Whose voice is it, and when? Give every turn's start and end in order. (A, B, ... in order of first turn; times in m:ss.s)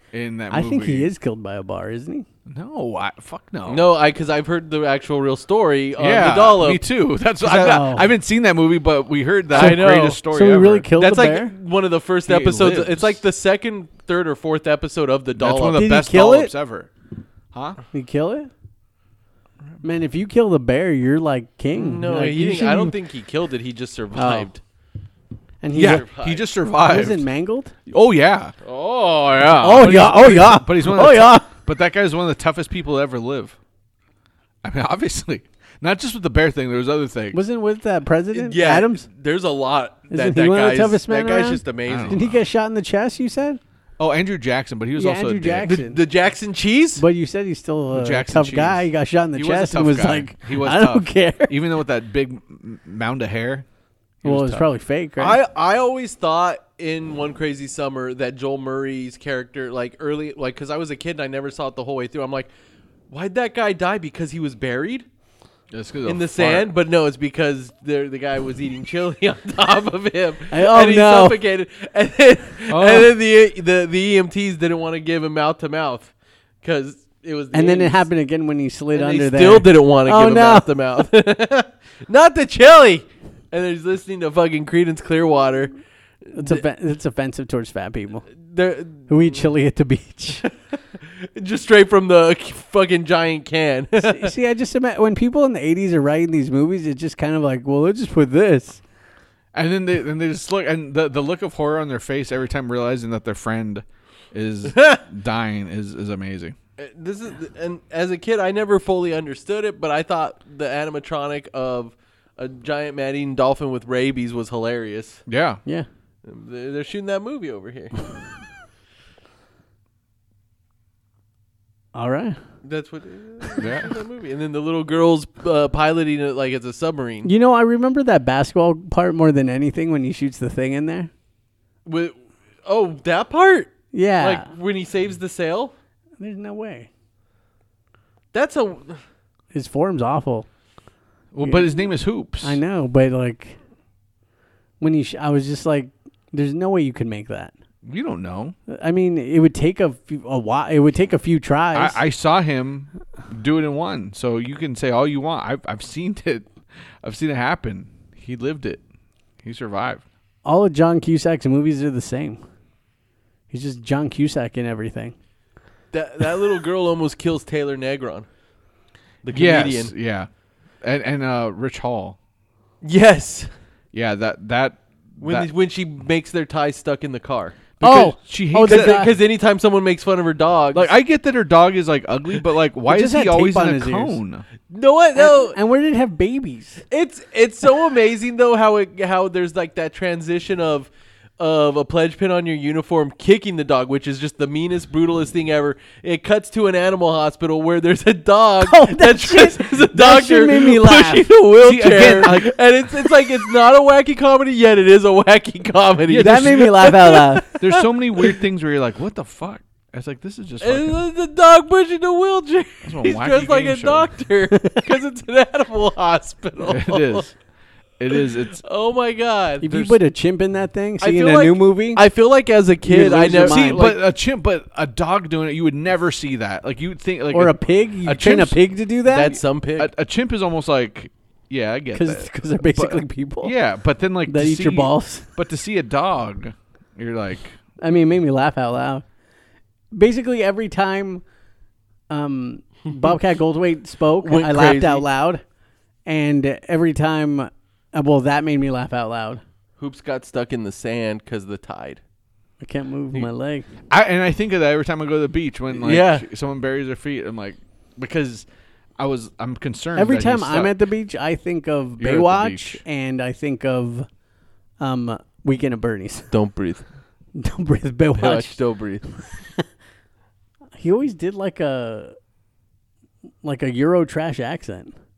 0:00.1-0:01.1 A
0:00.5-0:02.2 B
0:02.5-0:03.9 A
0:03.7-0:06.8 C
0:06.0-0:10.9 A
0:07.4-0:08.0 B
0:09.5-0:10.2 C
0:09.5-0:11.5 B
0:11.0-0:15.8 C
0:12.2-0:13.2 A
0:15.4-0:16.9 A
0:15.7-0:16.5 B
0:17.5-0:17.8 A
0:17.9-0:18.5 B
0:19.8-0:23.0 B
0:21.7-0:24.6 C
0:24.1-0:24.5 B
0:25.6-0:26.0 B
0:25.7-0:27.2 A
0:25.8-0:26.5 C
0:26.8-0:27.7 B
0:27.9-0:28.5 A
0:28.6-0:29.9 C
0:29.6-0:33.6 A
0:29.6-0:31.5 B
0:34.6-0:37.4 A
0:37.3-0:39.0 B
0:38.3-0:42.2 C
0:40.1-0:43.6 B
0:41.9-0:42.3 A
0:44.0-0:45.8 A
0:45.0-0:46.0 B
0:45.6-0:47.0 C
0:47.0-0:51.5 B
0:47.9-0:53.6 A
0:54.2-0:54.7 A
0:54.2-0:55.4 B
0:55.2-1:02.5 C
1:03.1-1:05.0 C
1:05.7-1:06.7 A
1:06.0-1:16.1 C
1:10.5-1:11.4 B
1:12.7-1:13.1 A
1:16.6-1:18.0 C
1:17.5-1:20.7 B
1:18.9-1:25.7 C
1:26.3-1:26.6 C
1:26.3-1:28.3 B
1:28.4-1:29.4 C
1:29.1-1:30.4 B
1:31.0-1:34.3 C
1:34.0-1:38.8 B
1:39.5-1:46.6 A
1:44.7-1:45.0 C
1:46.8-1:55.2 C
1:55.3-1:55.6 A
1:56.2-1:58.0 C
2:01.9-2:02.4 B
2:02.6-2:07.3 C
2:03.6-2:03.9 A
2:07.2-2:11.1 B
2:11.8-2:15.7 C
2:13.9-2:14.5 B
2:16.2-2:16.9 B
2:18.3-2:19.0 C
2:19.5-2:20.5 B
2:21.3-2:22.6 A
2:22.4-2:23.6 B
2:24.8-2:27.5 B
2:27.8-2:28.6 A
2:28.7-2:32.0 B
2:31.7-2:36.5 A
2:37.0-2:38.8 A
2:39.4-2:40.0 A
2:40.4-2:42.4 B
2:43.5-2:45.1 B
2:45.9-2:48.3 C
2:49.2-2:49.9 C
2:49.3-2:50.3 A
2:50.8-2:52.2 A
2:52.8-2:53.5 C
2:53.9-2:55.5 A
2:55.2-2:57.7 C
2:57.8-2:59.1 A
2:57.8-2:59.1 B
2:58.6-3:00.9 C
3:00.7-3:04.4 A
3:02.9-3:04.2 B
3:04.7-3:05.6 C
3:05.2-3:06.8 B
3:06.9-3:28.3 C
3:18.6-3:21.3 B
3:21.6-3:22.5 A
3:26.1-3:26.9 A
3:26.2-3:27.5 B
3:27.6-3:31.0 A
3:30.6-3:37.2 C
3:32.8-3:34.1 A
3:36.6-3:37.3 A
3:38.0-3:38.6 A
3:38.1-3:39.9 C
3:39.6-3:42.0 B
3:41.0-3:44.0 C
3:42.8-3:44.0 B
3:43.4-3:48.6 A
3:47.3-3:49.4 B
3:49.1-3:49.9 C
3:49.8-3:57.6 A
3:51.9-3:53.5 B
3:54.3-3:55.3 B
3:57.8-3:59.0 B
3:59.9-4:01.2 B
4:02.1-4:05.4 B
4:04.2-4:05.0 C
4:06.0-4:09.4 B
4:09.8-4:12.0 C
4:12.6-4:13.6 B
4:13.9-4:18.4 A
4:15.7-4:16.2 C
4:19.0-4:20.7 A
4:20.0-4:24.1 B
4:22.0-4:22.8 A
4:24.8-4:26.3 B
4:26.3-4:26.8 C
4:27.3-4:28.6 B
4:28.2-4:29.0 C
4:30.8-4:32.1 B
4:33.4-4:34.9 B